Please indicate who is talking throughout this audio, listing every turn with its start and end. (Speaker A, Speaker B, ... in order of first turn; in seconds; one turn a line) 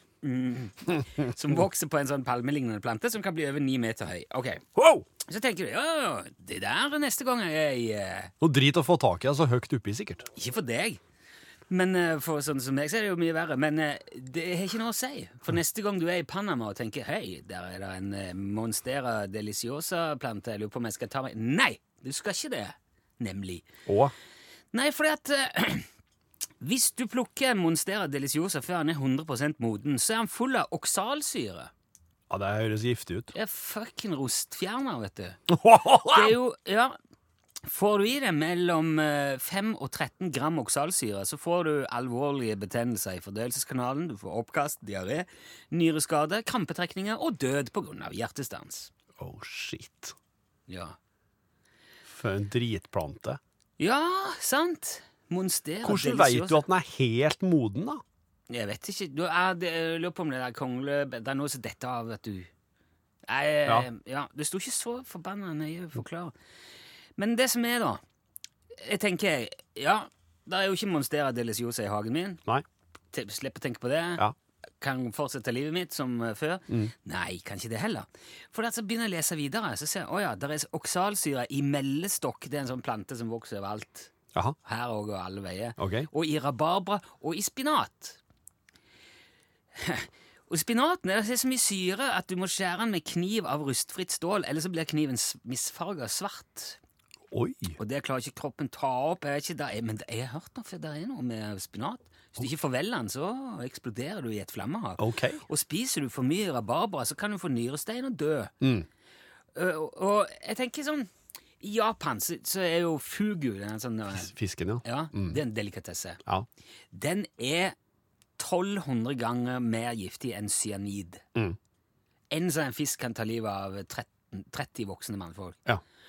Speaker A: 0.2-4.6
Speaker B: 4.8-5.0
Speaker A: 5.2-8.3
Speaker B: 8.4-10.3
Speaker A: 10.3-11.0
Speaker A: 11.7-23.6
Speaker B: 23.9-24.1
Speaker A: 24.7-25.9
Speaker A: 26.6-31.7
Speaker B: 32.3-33.3
Speaker A: 33.3-35.4
Speaker B: 35.5-36.3
Speaker A: 36.0-37.0
Speaker A: 37.6-48.9
Speaker B: 49.2-50.1
Speaker A: 50.7-51.0
Speaker B: 52.1-53.4
Speaker A: 53.8-56.6
Speaker B: 55.8-58.0
Speaker A: 58.5-62.5
Speaker A: 63.3-66.3
Speaker A: 67.2-68.0
Speaker A: 68.7-72.4
Speaker A: 73.1-74.2
Speaker A: 74.8-84.1
Speaker A: 84.6-88.2
Speaker B: 85.8-86.1
Speaker A: 89.7-96.8
Speaker B: 97.3-97.8
Speaker A: 97.8-108.5
Speaker B: 105.0-105.4
Speaker B: 108.6-108.9
Speaker A: 109.5-114.3
Speaker B: 114.2-115.4
Speaker A: 114.8-116.2
Speaker A: 116.9-117.8
Speaker A: 118.4-121.2
Speaker A: 122.3-125.6